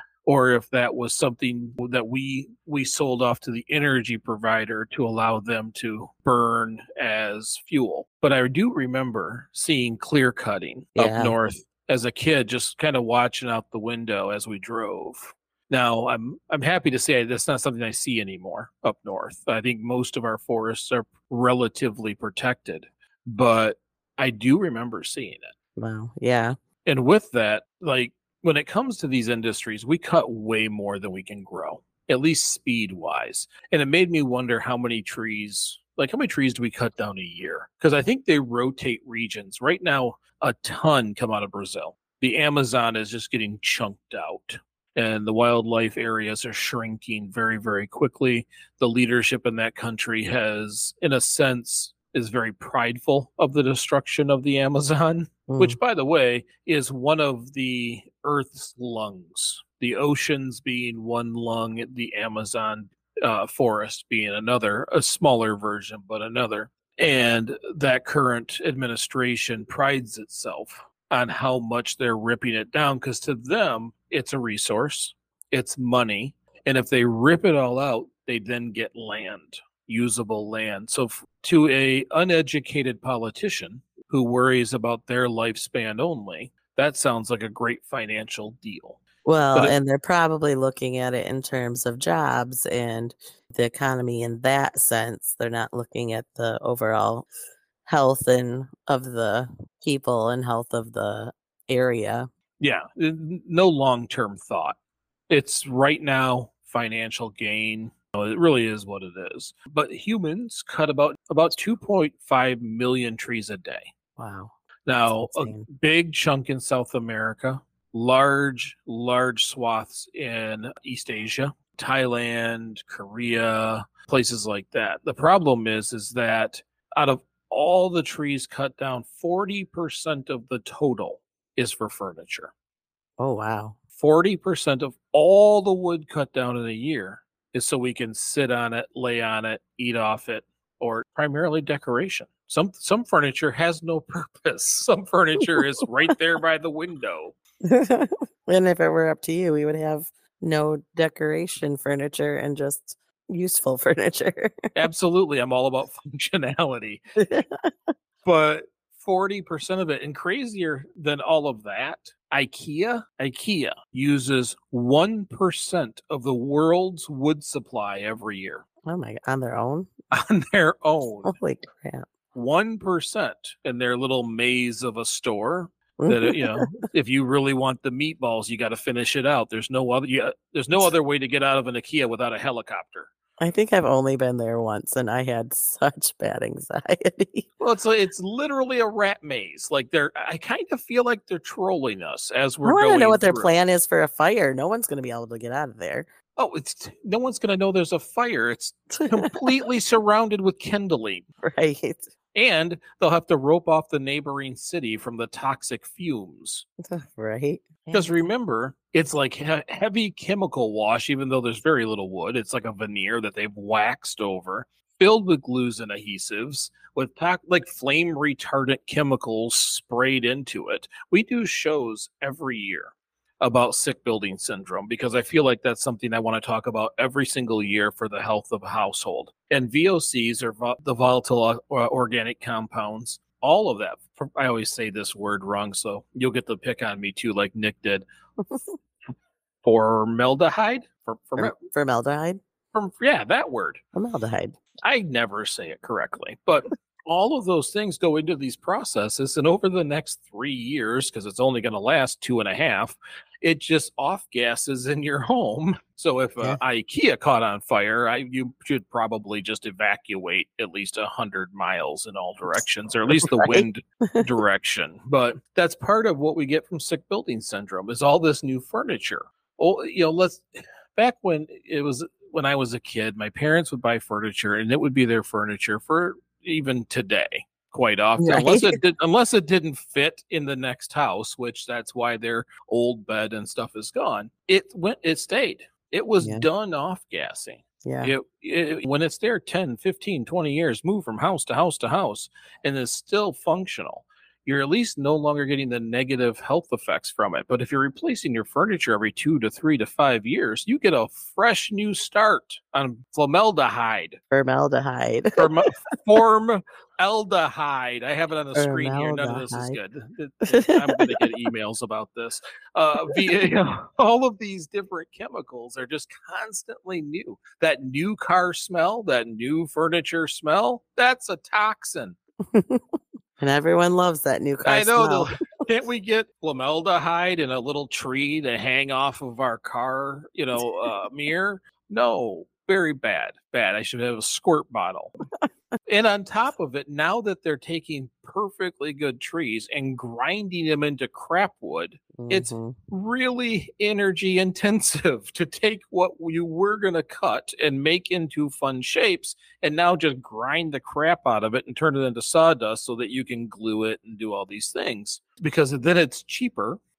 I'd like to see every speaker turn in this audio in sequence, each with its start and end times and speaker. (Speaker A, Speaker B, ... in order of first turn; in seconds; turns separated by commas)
Speaker A: 0.2-25.5, Speaker B: 10.9-11.3, Speaker B: 25.8-26.6, Speaker A: 26.8-89.0, Speaker B: 55.5-55.8, Speaker B: 89.2-97.3, Speaker B: 97.8-102.3, Speaker A: 102.6-104.8, Speaker A: 105.3-113.9, Speaker B: 114.2-114.5, Speaker A: 114.8-132.5, Speaker B: 115.0-115.7, Speaker B: 133.2-133.8, Speaker A: 133.9-147.3, Speaker B: 147.6-154.6, Speaker A: 154.7-157.0, Speaker B: 157.2-157.7, Speaker A: 158.2-168.7, Speaker B: 168.8-169.9, Speaker A: 170.1-171.3, Speaker B: 171.2-172.1, Speaker A: 172.3-183.1, Speaker B: 176.0-176.7, Speaker B: 183.4-187.5, Speaker A: 187.6-193.5, Speaker B: 192.6-196.1, Speaker A: 196.3-201.2, Speaker B: 199.0-199.4, Speaker B: 201.4-202.1, Speaker A: 202.3-206.7, Speaker B: 206.9-208.2, Speaker A: 207.9-238.0, Speaker A: 239.6-241.5, Speaker B: 241.4-242.4, Speaker A: 242.7-243.8, Speaker B: 243.9-244.6, Speaker A: 244.8-304.2, Speaker B: 262.5-264.2, Speaker B: 278.2-278.8, Speaker B: 286.2-286.4, Speaker B: 287.8-288.1, Speaker B: 304.3-305.4, Speaker A: 305.4-322.2, Speaker B: 308.5-309.8, Speaker B: 310.5-311.2, Speaker B: 322.5-322.8, Speaker B: 323.4-325.3, Speaker A: 324.6-335.2, Speaker B: 330.6-330.9, Speaker A: 335.9-356.8, Speaker B: 342.2-342.7